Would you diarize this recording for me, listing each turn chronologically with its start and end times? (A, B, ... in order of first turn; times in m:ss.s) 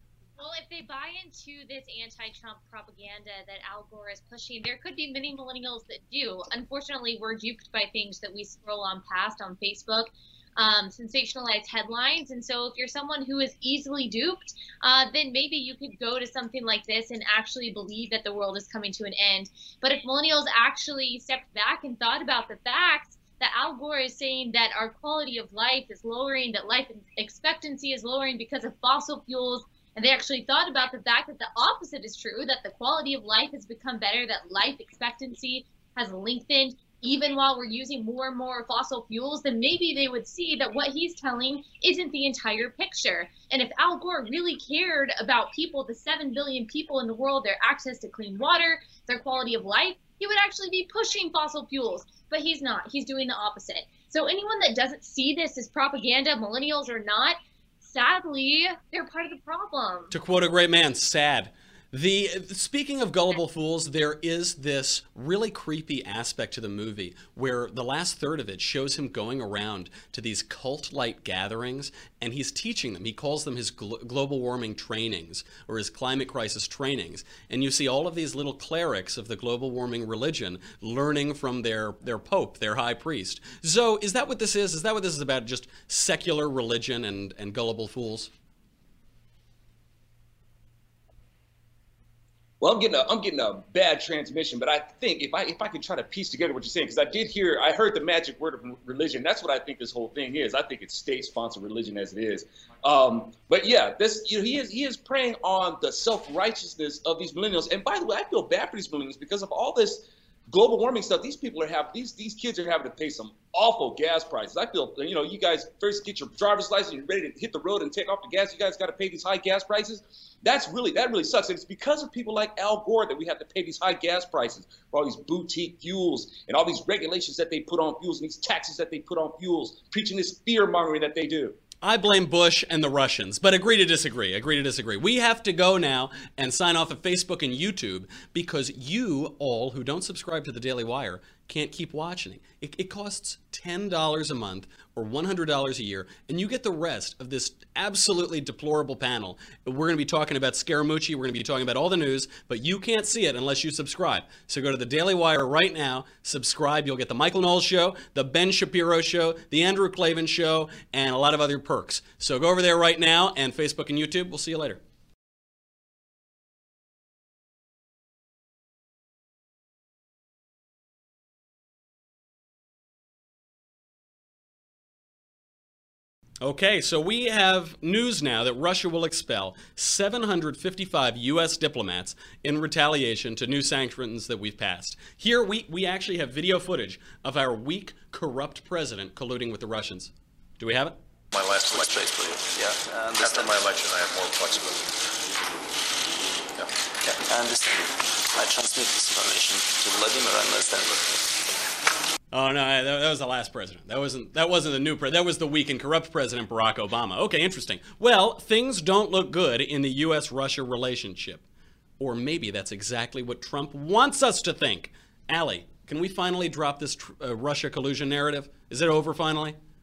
0:00.4-1:00.1 A
1:00.1-1:28.3 B
1:32.6-2:11.6 C
2:11.8-2:44.8 B
2:56.4-3:11.0 B
3:11.3-3:12.6 D
3:11.7-3:13.6 E
3:13.1-3:15.4 D
3:16.6-3:17.2 D
3:17.1-3:21.3 E
3:22.3-3:31.4 B
3:32.0-3:39.6 B